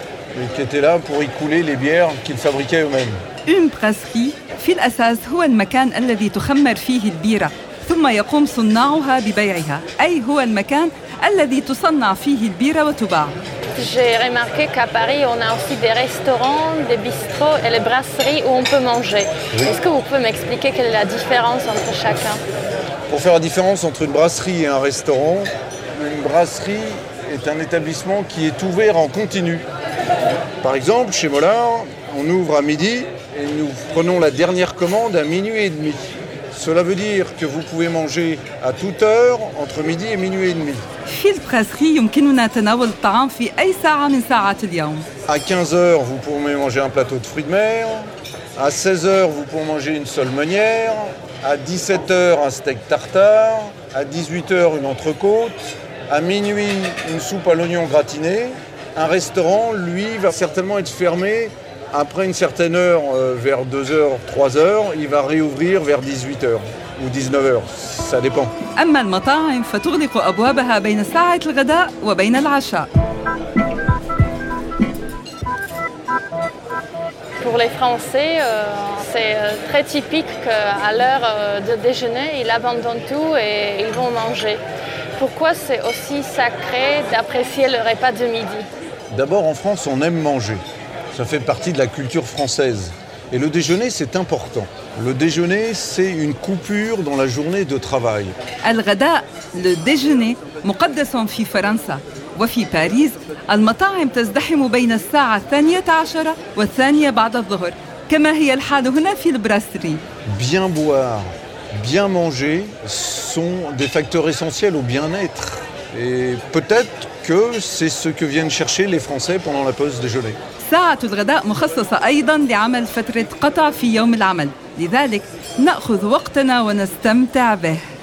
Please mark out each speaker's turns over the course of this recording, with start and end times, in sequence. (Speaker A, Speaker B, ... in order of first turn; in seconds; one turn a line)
Speaker A: 0.3-3.2
Speaker B: 3.5-13.4
Speaker C: 13.8-22.4
Speaker A: 23.1-29.7
Speaker A: 30.6-40.8
Speaker B: 41.1-45.1
Speaker A: 45.3-68.5
Speaker B: 68.8-72.9
Speaker C: 77.4-84.6
Speaker C: 85.2-88.7
Speaker A: 89.1-98.3
Speaker B: 98.6-110.0
Speaker A: 110.3-120.4
Speaker B: 120.6-127.8